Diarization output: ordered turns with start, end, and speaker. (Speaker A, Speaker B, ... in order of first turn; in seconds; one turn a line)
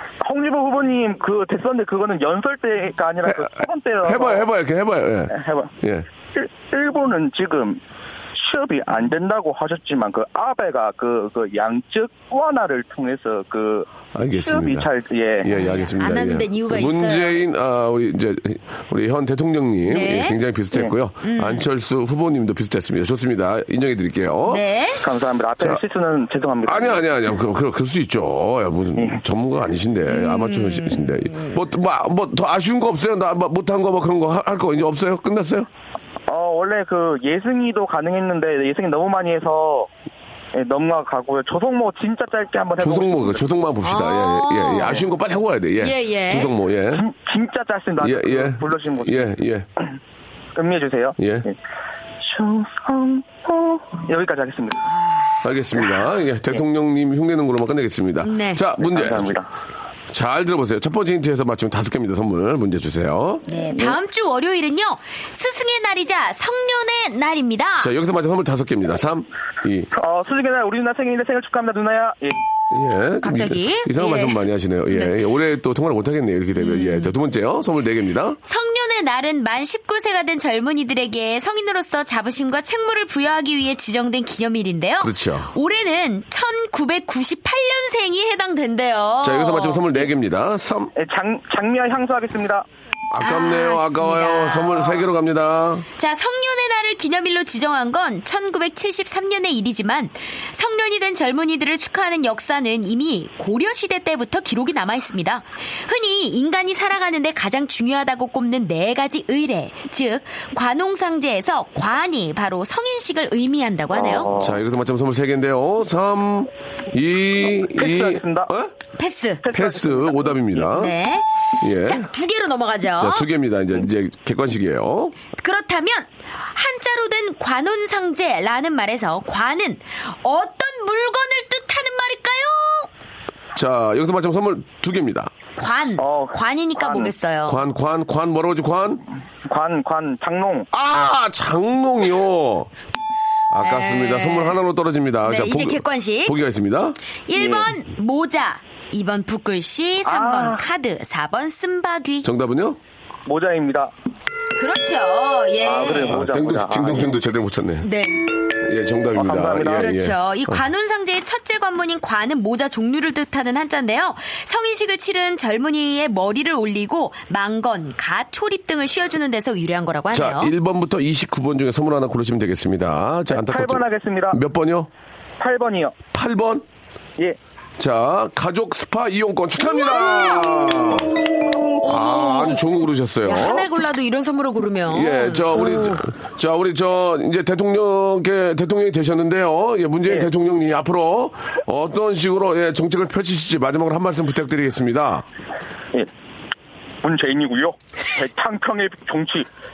Speaker A: 0.2-4.5
Speaker B: 3.2-6.1
Speaker A: 5.3-5.7
Speaker A: 6.3-7.8
Speaker A: 8.3-13.9
Speaker B: 14.1-14.9
Speaker A: 14.4-15.6
Speaker B: 15.4-24.6
Speaker C: 15.5-17.4
Speaker C: 19.9-20.4
Speaker C: 21.2-21.6
Speaker C: 24.5-25.0
Speaker A: 25.0-27.3
Speaker B: 26.6-35.7
Speaker C: 30.1-31.5
Speaker A: 36.3-39.9
Speaker A: 40.5-43.4
Speaker B: 42.8-47.0
Speaker C: 43.8-45.1
Speaker C: 45.8-46.5
Speaker A: 46.9-49.3
Speaker B: 48.0-49.7
Speaker A: 50.5-51.5
Speaker B: 51.2-51.5
Speaker A: 52.2-54.8
Speaker B: 55.4-59.4
Speaker C: 58.2-58.6
Speaker A: 58.8-59.5
Speaker B: 60.1-64.0
Speaker C: 63.5-67.9
Speaker B: 67.8-69.9
Speaker A: 69.9-72.4
Speaker B: 72.7-78.4
Speaker C: 73.2-75.1
Speaker C: 76.5-77.1
Speaker C: 78.5-90.0
Speaker B: 85.0-85.5
Speaker B: 89.2-90.9
Speaker A: 91.0-92.6
Speaker B: 93.1-95.8
Speaker C: 93.2-95.0
Speaker C: 96.0-114.3
Speaker A: 113.9-114.6
Speaker B: 114.0-118.7
Speaker A: 117.8-118.5
Speaker C: 119.0-119.4
Speaker A: 119.4-120.7
Speaker B: 119.5-120.9
Speaker C: 120.7-123.3
Speaker B: 121.6-122.0
Speaker B: 123.0-125.1
Speaker C: 125.4-132.9
Speaker B: 133.5-135.3
Speaker C: 135.6-137.6
Speaker A: 136.0-137.1
Speaker B: 137.5-139.0
Speaker A: 139.5-140.7
Speaker B: 140.7-142.7
Speaker B: 143.5-147.0
Speaker C: 143.6-144.6
Speaker C: 145.2-146.3
Speaker C: 147.3-152.3
Speaker A: 147.3-147.7
Speaker A: 150.1-150.6
Speaker B: 152.2-152.8
Speaker A: 153.2-153.9
Speaker C: 154.6-156.2
Speaker A: 155.6-157.2
Speaker B: 156.1-157.9
Speaker C: 157.8-158.2
Speaker B: 158.6-160.6
Speaker A: 159.2-159.8
Speaker C: 159.7-170.5
Speaker B: 170.1-174.9
Speaker A: 173.3-174.4
Speaker A: 175.4-175.9
Speaker B: 176.1-176.6
Speaker B: 177.8-181.2
Speaker C: 179.6-180.5
Speaker B: 181.8-183.7
Speaker C: 181.9-182.6
Speaker C: 183.2-186.0
Speaker B: 184.9-195.2
Speaker A: 197.0-199.5